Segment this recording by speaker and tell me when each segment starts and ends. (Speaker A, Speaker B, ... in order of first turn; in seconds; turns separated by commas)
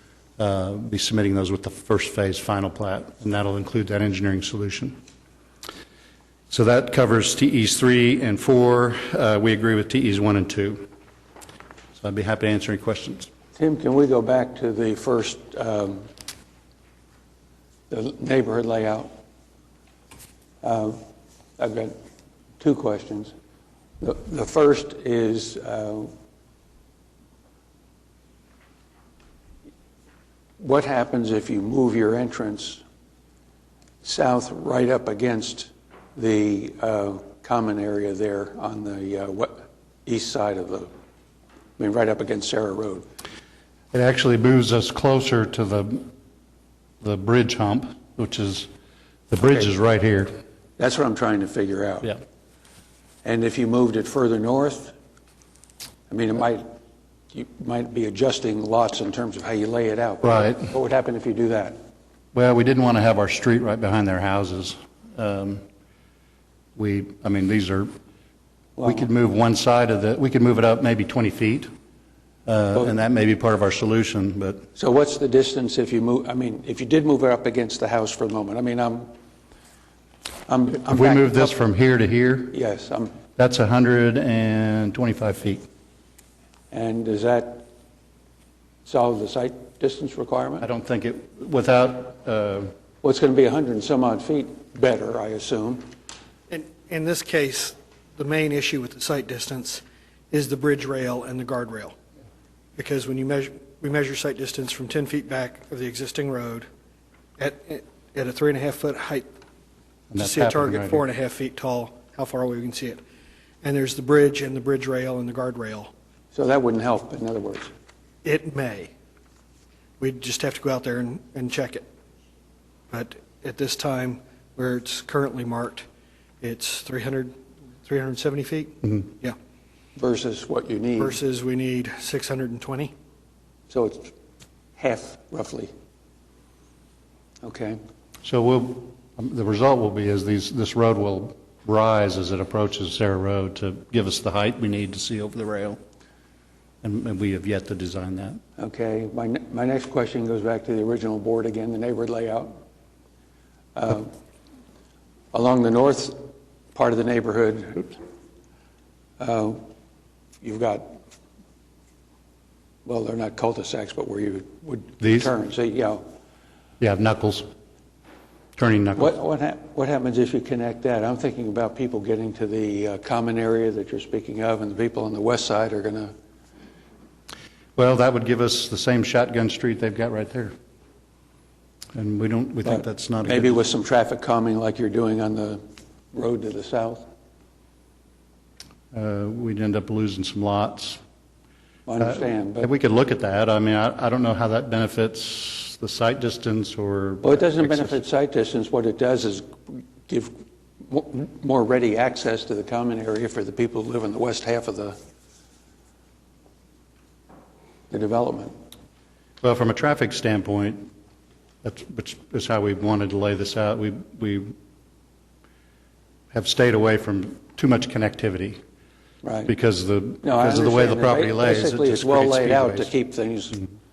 Speaker A: 0.4-5.0, Speaker A: 6.5-10.9, Speaker A: 11.9-13.3, Speaker B: 13.6-16.1, Speaker B: 17.9-19.1, Speaker B: 20.6-21.0, Speaker B: 21.6-21.9, Speaker B: 22.6-23.3, Speaker B: 24.0-26.1, Speaker B: 30.6-32.8, Speaker B: 34.0-40.9, Speaker B: 41.8-43.0, Speaker A: 43.9-46.1, Speaker A: 47.0-48.7, Speaker A: 49.3-50.3, Speaker B: 49.4-49.7, Speaker B: 50.8-52.1, Speaker B: 53.2-54.9, Speaker B: 56.1-56.6, Speaker B: 57.3-61.8, Speaker A: 60.2-60.7, Speaker A: 62.3-65.6, Speaker A: 66.8-67.9, Speaker B: 68.8-69.1, Speaker A: 68.8-71.7, Speaker A: 72.5-74.7, Speaker B: 74.8-79.1, Speaker B: 80.5-81.5, Speaker A: 80.8-82.5, Speaker B: 82.5-83.1, Speaker A: 83.3-85.6, Speaker B: 86.7-87.7, Speaker B: 88.8-90.7, Speaker A: 90.6-92.7, Speaker B: 93.0-95.9, Speaker C: 96.5-102.0, Speaker C: 102.8-106.7, Speaker C: 107.4-109.3, Speaker A: 110.1-111.0, Speaker C: 110.2-113.0, Speaker C: 113.6-115.9, Speaker B: 116.3-117.7, Speaker C: 118.2-118.9, Speaker C: 120.0-121.8, Speaker C: 122.9-125.8, Speaker C: 126.4-127.3, Speaker C: 127.8-129.3, Speaker B: 129.9-131.2, Speaker C: 131.0-132.9, Speaker B: 133.7-134.1, Speaker B: 134.8-135.7, Speaker B: 137.4-137.8, Speaker A: 138.2-145.8, Speaker A: 146.8-148.4, Speaker B: 148.6-152.6, Speaker B: 153.7-154.1, Speaker B: 155.3-158.0, Speaker B: 159.2-159.6, Speaker B: 160.4-161.0, Speaker B: 162.8-166.0, Speaker A: 165.0-165.3, Speaker A: 166.8-167.5, Speaker A: 168.6-169.2, Speaker B: 168.9-176.1, Speaker A: 177.8-180.5, Speaker A: 181.9-183.6, Speaker B: 182.6-185.6, Speaker B: 186.1-187.0, Speaker A: 188.9-191.0, Speaker B: 191.8-192.7, Speaker A: 192.0-197.9, Speaker B: 197.2-205.0, Speaker B: 207.9-208.5, Speaker A: 209.4-210.9, Speaker A: 211.6-214.5, Speaker A: 216.3-218.6, Speaker B: 219.2-219.5, Speaker A: 219.5-222.9, Speaker B: 220.2-223.6